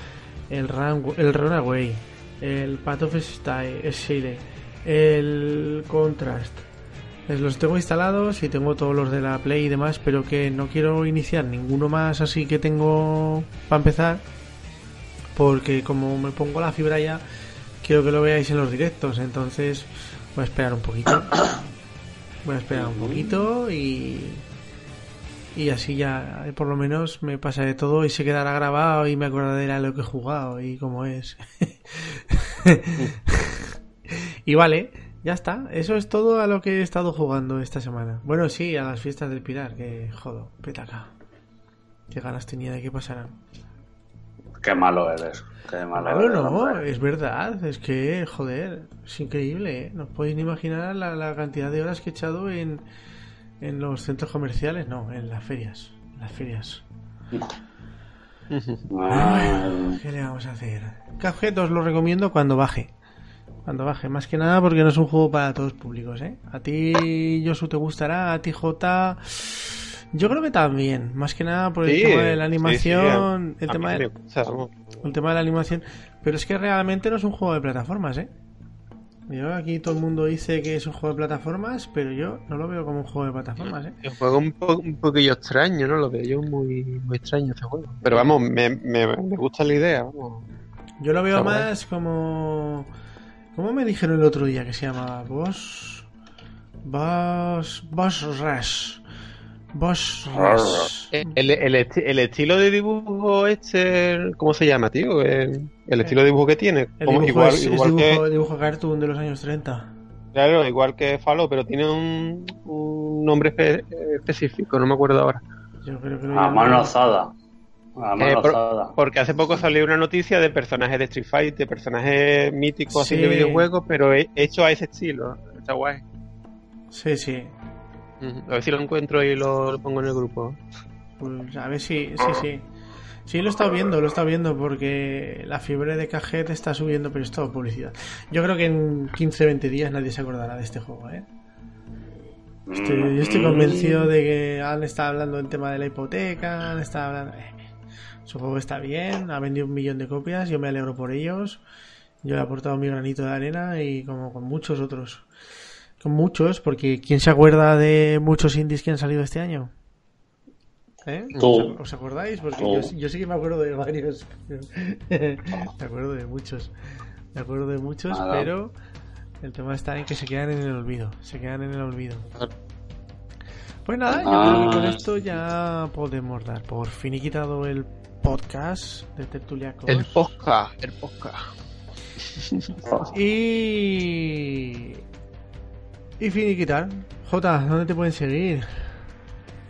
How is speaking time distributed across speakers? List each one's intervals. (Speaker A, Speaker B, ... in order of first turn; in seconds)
Speaker A: 0.5-6.7, 7.3-14.2, 15.3-17.2, 17.8-21.4, 22.4-24.4, 25.5-41.1, 42.1-43.4, 46.0-52.8, 53.6-56.8, 59.1-62.9, 63.6-74.0, 75.0-78.3, 79.3-84.0, 88.0-88.3, 91.0-92.9, 93.5-96.1, 96.8-99.0, 99.7-101.3, 107.0-109.9, 115.8-116.9, 122.9-123.7, 126.9-127.5, 131.2-132.7, 133.3-141.2, 142.7-147.6, 148.2-151.6, 152.2-155.2, 156.0-159.7, 161.0-166.7, 167.3-168.7, 169.4-172.4, 173.8-180.2, 183.1-185.0, 186.2-188.8
Speaker B: 22.7-23.3, 44.6-46.8, 58.9-60.0, 100.3-100.9, 116.3-117.3, 118.0-118.9, 142.7-143.8, 161.4-161.7, 162.6-162.9, 168.1-168.5, 174.1-175.0, 182.8-183.1
Speaker C: 58.5-58.8, 71.8-74.7, 83.6-90.5, 91.3-91.7, 101.1-108.2, 110.3-115.4, 118.2-126.0, 128.2-130.6, 143.6-144.1, 179.9-181.5, 182.3-182.7